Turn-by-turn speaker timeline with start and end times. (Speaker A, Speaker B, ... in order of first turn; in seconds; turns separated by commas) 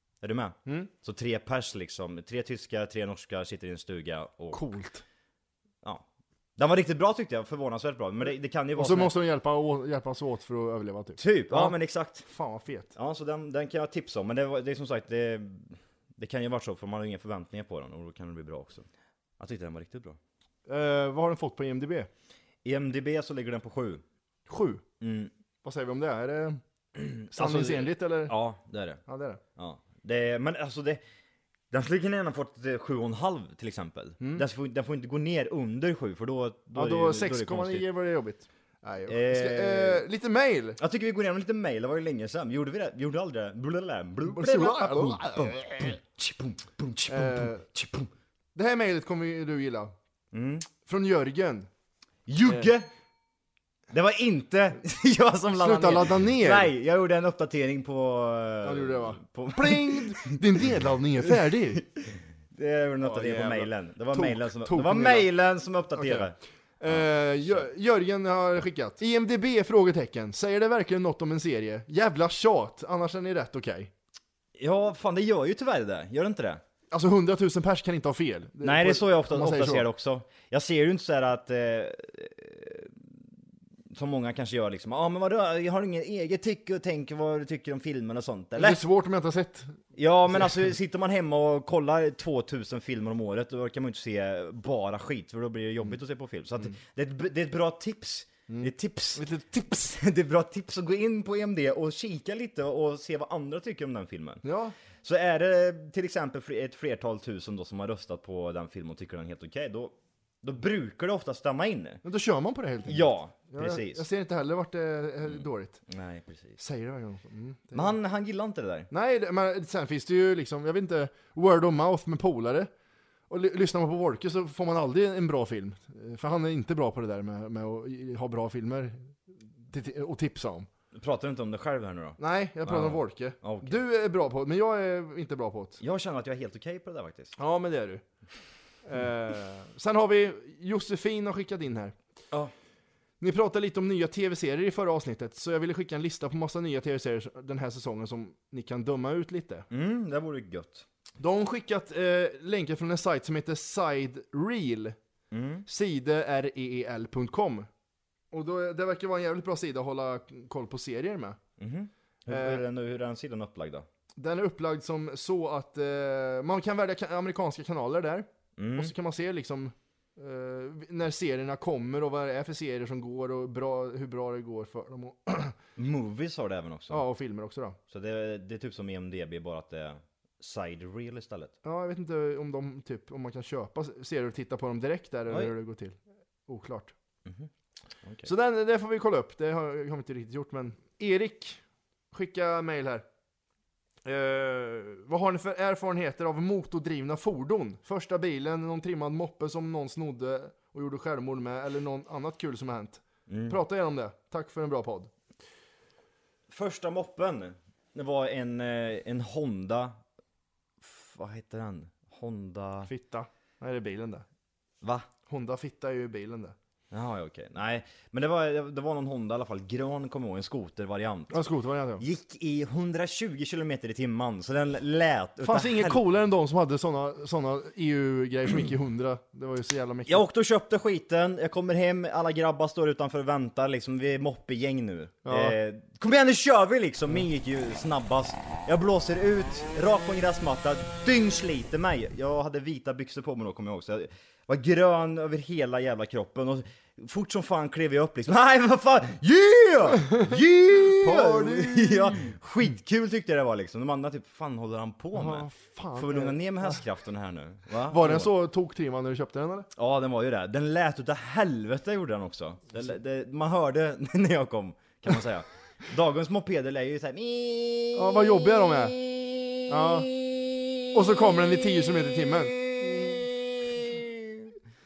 Speaker A: 0.2-4.7, Speaker B: 4.5-5.0, Speaker A: 6.6-9.2, Speaker B: 8.8-12.9, Speaker A: 11.2-12.3, Speaker A: 13.0-18.9, Speaker A: 19.4-20.2, Speaker B: 20.7-22.1, Speaker A: 22.6-24.0, Speaker B: 24.5-24.8, Speaker A: 25.0-25.3, Speaker B: 25.6-26.6, Speaker A: 27.0-29.0, Speaker B: 27.3-28.3, Speaker B: 29.1-29.4, Speaker A: 29.6-31.0, Speaker A: 31.7-37.9, Speaker B: 34.2-34.5, Speaker B: 36.8-40.8, Speaker A: 39.1-40.0, Speaker A: 40.8-48.1, Speaker B: 44.2-45.6, Speaker B: 47.1-47.7, Speaker B: 48.5-49.9, Speaker A: 50.3-50.7, Speaker B: 50.8-51.7, Speaker A: 52.3-52.9, Speaker A: 53.9-60.4, Speaker B: 55.5-56.7, Speaker B: 58.6-61.8, Speaker A: 61.5-66.4, Speaker B: 63.0-65.3, Speaker B: 66.0-66.3, Speaker B: 66.8-73.9, Speaker A: 66.9-67.6, Speaker A: 74.6-76.6, Speaker B: 76.9-79.9, Speaker A: 78.6-83.1, Speaker A: 83.9-88.8, Speaker B: 88.6-89.8, Speaker A: 90.0-104.4, Speaker B: 98.5-99.6, Speaker B: 104.4-104.8, Speaker A: 105.0-112.0, Speaker B: 112.0-115.8, Speaker A: 112.9-114.0, Speaker A: 115.3-116.6, Speaker B: 116.6-118.0, Speaker A: 117.7-118.9, Speaker B: 118.9-122.7, Speaker B: 123.3-130.7, Speaker A: 130.9-133.8, Speaker B: 132.2-135.8, Speaker A: 135.8-137.3, Speaker B: 137.4-138.0, Speaker B: 138.9-142.0, Speaker B: 143.2-149.7, Speaker A: 149.7-150.8, Speaker B: 151.2-155.0, Speaker A: 155.3-155.7, Speaker B: 155.7-157.7, Speaker B: 158.3-161.4, Speaker A: 161.6-163.9, Speaker B: 162.3-162.6, Speaker B: 164.2-175.6, Speaker A: 168.6-168.9, Speaker A: 175.8-177.1, Speaker B: 176.9-177.8, Speaker A: 177.9-181.6, Speaker B: 181.6-186.9, Speaker A: 188.0-188.3, Speaker B: 188.2-191.6, Speaker B: 192.1-193.1, Speaker B: 194.0-205.1, Speaker A: 203.3-203.6, Speaker A: 206.5-210.0, Speaker A: 210.8-212.9, Speaker B: 212.9-214.3, Speaker A: 214.8-215.1, Speaker B: 215.3-216.6, Speaker A: 216.9-221.4, Speaker B: 221.3-222.0, Speaker A: 222.0-226.0, Speaker B: 225.4-230.2, Speaker A: 230.1-258.3, Speaker B: 235.2-235.6, Speaker B: 250.9-252.4, Speaker B: 255.2-256.8, Speaker B: 257.9-259.7, Speaker A: 259.8-269.7, Speaker B: 267.9-269.0, Speaker B: 269.7-270.1, Speaker A: 270.2-270.6, Speaker B: 270.9-272.6, Speaker A: 272.6-274.5